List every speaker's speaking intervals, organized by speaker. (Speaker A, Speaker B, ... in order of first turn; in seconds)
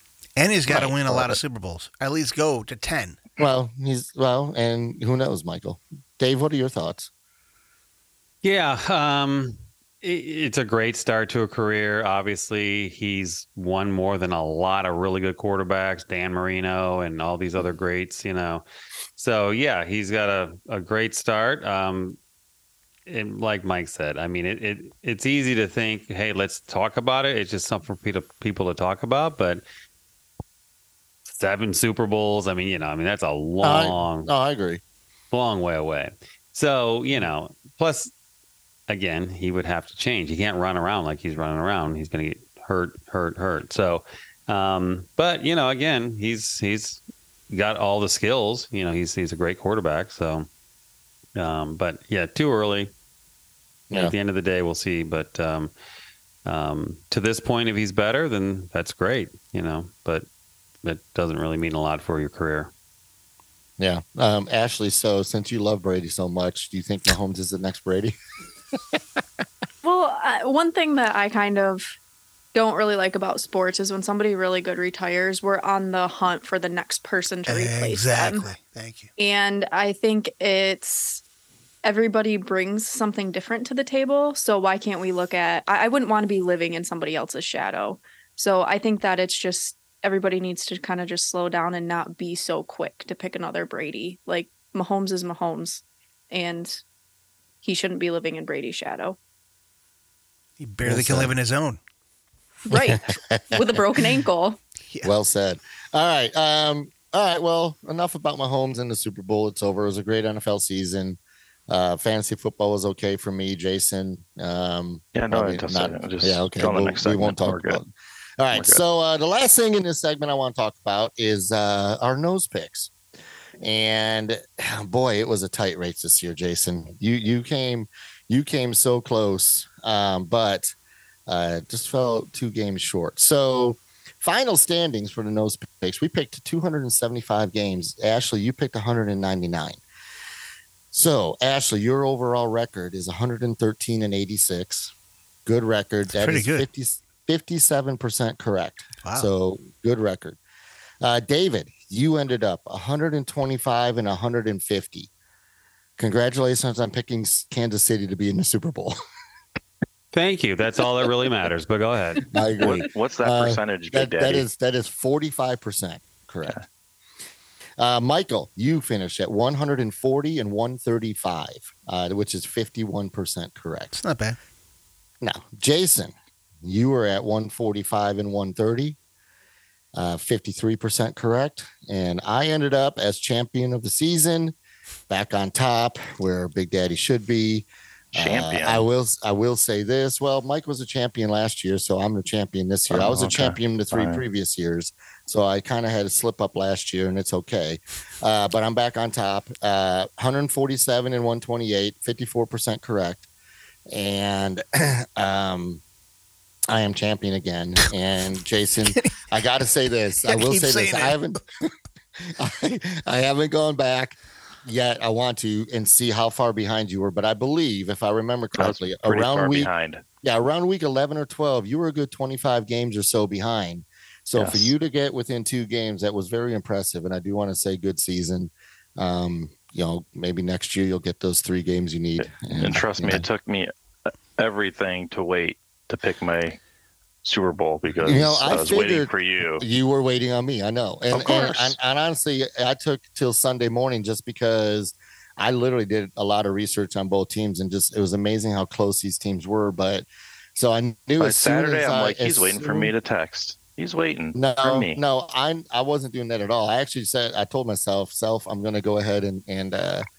Speaker A: 0.4-3.2, 77.5-79.1, 100.6-101.8, 146.1-146.7, 149.0-149.3, 173.9-174.4, 208.9-209.2, 210.2-211.2
Speaker B: 0.7-1.4, 3.4-7.1, 33.6-34.8, 63.8-68.2, 100.8-101.3, 102.7-103.7, 105.0-117.9, 118.4-122.9, 123.6-130.8, 131.3-139.8, 140.9-144.9, 145.5-150.4, 151.0-155.1, 156.0-159.0, 162.3-166.6, 167.8-173.9, 175.2-179.0, 179.9-184.6, 185.1-203.3, 203.9-205.8, 206.7-219.7, 220.2-233.3, 238.0-252.9, 254.3-260.0
Speaker C: 8.4-18.6, 19.2-22.2, 23.1-29.6, 31.3-34.3, 35.3-38.1, 38.9-50.5, 51.4-52.9, 53.9-55.7, 56.5-60.3, 60.8-62.7, 160.1-162.3
Speaker D: 69.8-71.9, 72.5-78.5, 79.2-81.2, 81.8-96.8, 97.6-99.2, 102.7-104.6
Speaker E: 115.1-117.9, 118.5-118.8, 162.6-164.5, 188.1-188.8, 192.9-194.2, 218.6-220.0, 224.4-224.7, 232.2-233.7, 234.4-236.6, 237.2-239.7, 241.1-241.8, 251.2-255.0